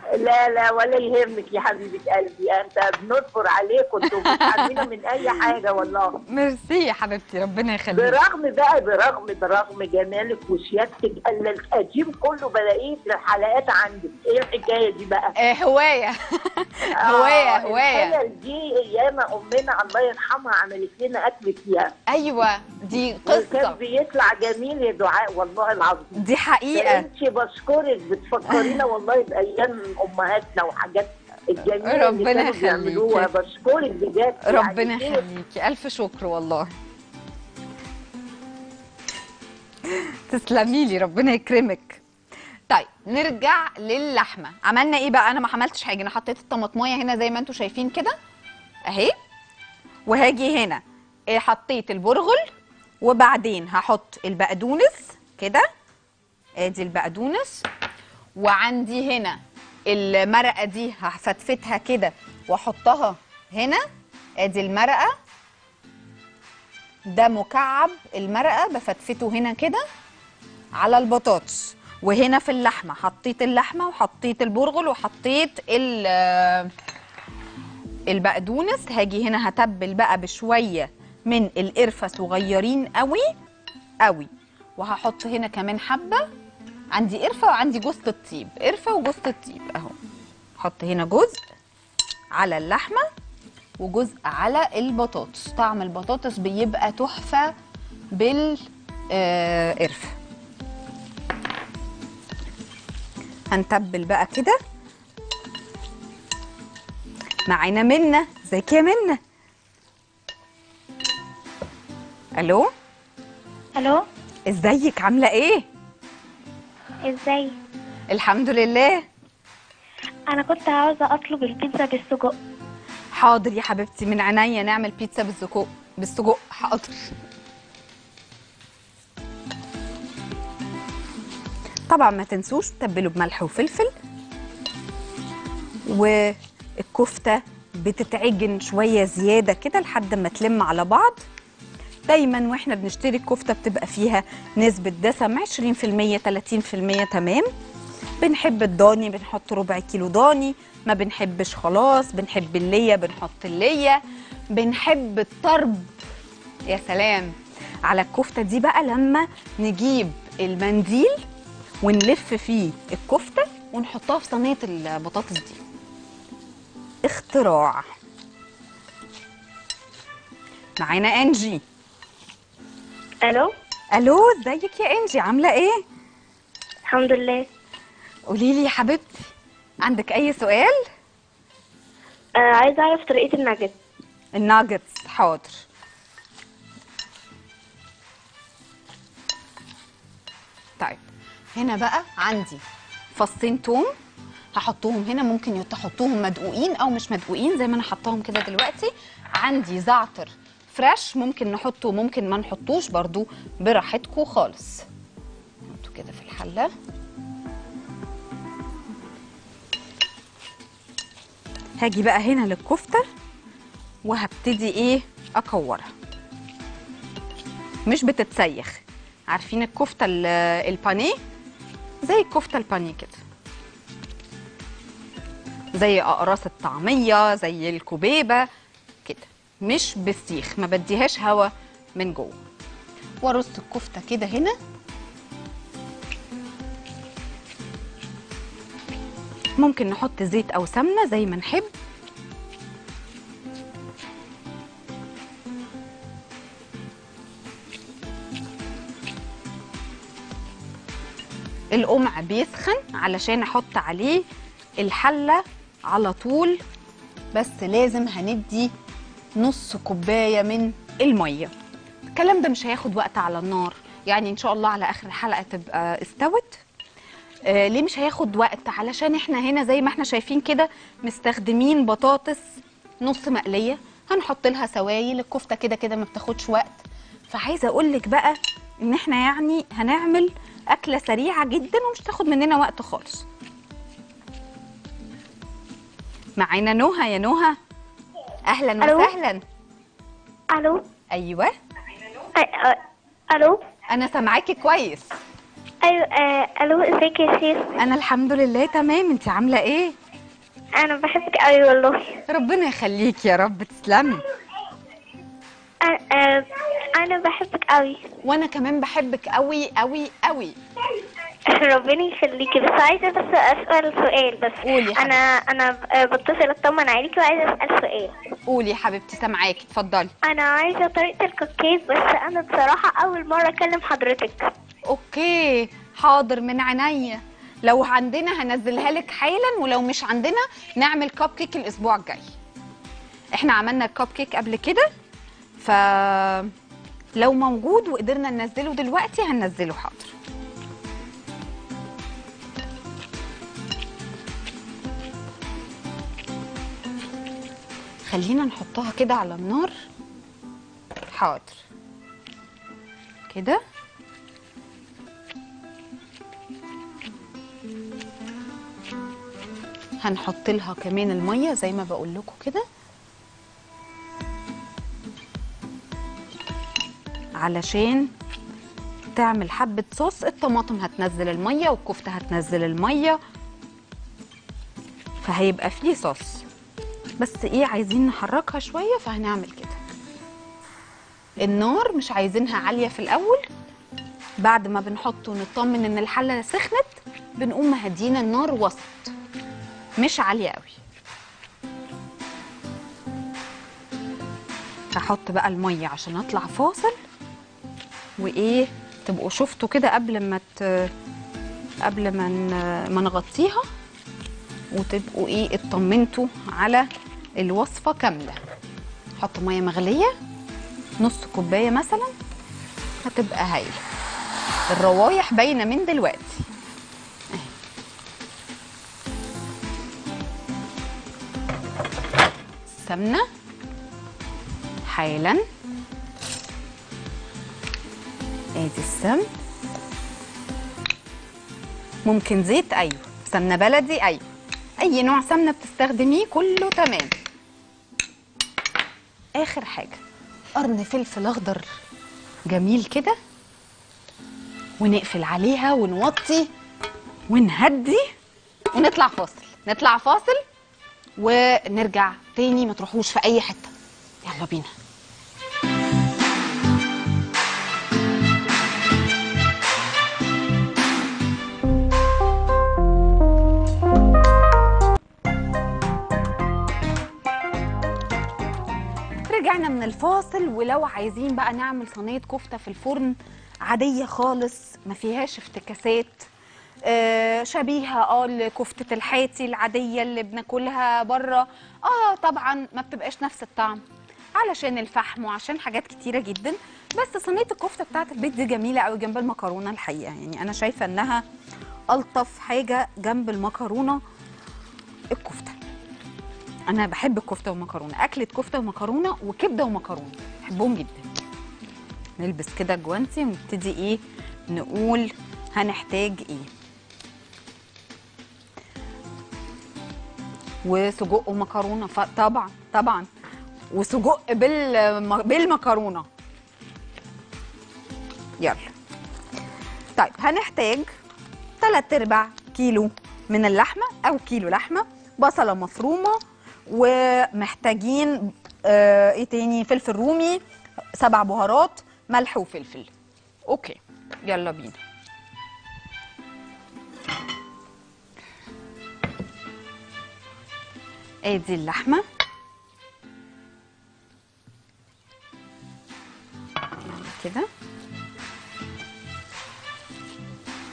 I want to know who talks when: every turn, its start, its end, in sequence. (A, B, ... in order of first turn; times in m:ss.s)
0:00.2-0:06.2 A
0:04.2-0:04.8 B
0:06.3-0:08.2 B
0:07.9-0:15.3 A
0:15.4-0:18.2 B
0:16.9-0:21.9 A
0:22.1-0:23.8 B
0:23.2-0:26.2 A
0:26.2-0:27.1 B
0:26.7-0:35.2 A
0:31.8-0:33.3 B
0:34.4-0:36.7 B
0:39.8-0:42.0 B
0:42.7-0:48.2 B
0:48.9-0:49.1 B
0:50.1-0:52.5 B
0:53.0-0:55.7 B
0:56.6-0:57.6 B
0:58.4-1:03.8 B
1:04.4-1:05.1 B
1:07.1-1:09.8 B
1:10.8-1:16.7 B
1:18.1-1:23.3 B
1:24.0-1:26.3 B
1:26.9-1:29.9 B
1:30.6-1:31.4 B
1:32.3-1:33.0 B
1:33.8-1:37.5 B
1:38.1-1:40.2 B
1:43.5-1:44.6 B
1:47.5-1:49.2 B
1:52.4-1:52.7 B
1:53.8-1:54.0 C
1:54.5-1:55.6 B
1:57.0-1:57.5 C
1:58.1-1:59.1 B
2:00.3-2:02.3 C
2:03.1-2:07.1 B
2:11.9-2:13.9 B
2:15.9-2:21.2 B
2:22.1-2:27.5 B
2:28.2-2:34.0 B
2:34.5-2:35.9 B
2:36.7-2:37.3 B
2:37.8-2:41.2 B
2:41.8-2:45.6 B
2:47.0-2:47.9 B
2:50.8-2:51.6 B
2:53.2-2:53.5 C
2:53.9-2:55.8 B
2:56.9-2:57.5 C
2:58.3-2:59.3 B
2:59.8-3:00.8 B
3:02.4-3:03.8 C
3:04.4-3:05.6 B
3:10.8-3:11.0 B
3:11.6-3:12.6 B
3:13.2-3:13.9 B
3:14.6-3:24.8 B
3:25.7-3:26.7 B
3:31.8-3:33.0 B
3:34.0-3:35.9 B
3:37.9-3:41.2 B
3:42.0-3:43.2 B
3:45.8-3:48.5 B
3:49.0-3:52.4 B
3:53.2-3:54.6 B
3:59.6-4:01.7 B
4:11.7-4:14.2 B
4:14.8-4:16.6 B
4:17.3-4:18.7 B
4:19.4-4:21.5 B
4:22.1-4:26.6 B
4:27.5-4:32.4 B
4:33.0-4:43.2 B
4:46.4-4:47.6 B
4:48.5-4:49.4 B
4:48.8-4:49.1 C
4:50.5-4:50.8 C
4:51.1-4:51.5 B
4:52.4-4:53.6 C
4:53.9-4:55.1 B
4:55.8-4:57.8 C
4:57.8-4:59.9 B
5:00.8-5:02.2 C
5:02.3-5:04.2 B
5:05.8-5:08.1 C
5:08.2-5:10.6 B
5:11.5-5:18.3 C
5:14.6-5:15.2 B
5:18.5-5:20.1 B
5:20.2-5:24.5 C
5:24.9-5:32.3 B
5:33.4-5:34.9 B
5:35.6-5:36.5 B
5:37.2-5:40.1 B
5:48.1-5:49.7 B
5:51.1-5:51.6 B
5:53.3-5:53.6 B
6:00.0-6:02.6 B
6:07.4-6:08.1 B
6:09.2-6:13.2 B
6:15.2-6:16.4 B
6:17.2-6:19.8 B
6:21.4-6:23.4 B
6:24.4-6:29.1 B
6:30.0-6:30.8 B
6:35.0-6:37.0 B
6:38.2-6:40.9 B
6:41.8-6:43.6 B
6:44.7-6:46.9 B
6:47.4-6:48.4 B
6:49.2-6:50.1 B
6:51.0-6:52.1 B
6:53.0-6:53.8 B
6:54.7-6:56.5 B
7:02.7-7:03.2 B
7:04.9-7:05.4 B
7:08.6-7:09.3 B
7:12.1-7:14.2 B
7:14.8-7:17.1 B
7:19.4-7:20.0 B
7:20.6-7:21.7 B
7:22.5-7:23.2 B
7:24.8-7:26.5 B
7:27.3-7:28.1 B
7:28.8-7:30.4 B
7:31.2-7:33.7 B
7:34.2-7:34.7 B
7:49.3-7:56.3 B
7:56.8-8:03.8 B
8:04.4-8:11.2 B
8:11.9-8:14.0 B
8:15.1-8:15.6 B
8:16.7-8:21.1 B
8:22.2-8:26.5 B
8:30.6-8:33.1 B
8:33.7-8:36.1 B
8:38.4-8:38.7 B
8:40.0-8:40.9 B
8:41.6-8:50.4 B
8:51.0-8:52.9 B
8:53.5-8:54.8 B
9:01.3-9:02.0 B
9:06.8-9:07.5 B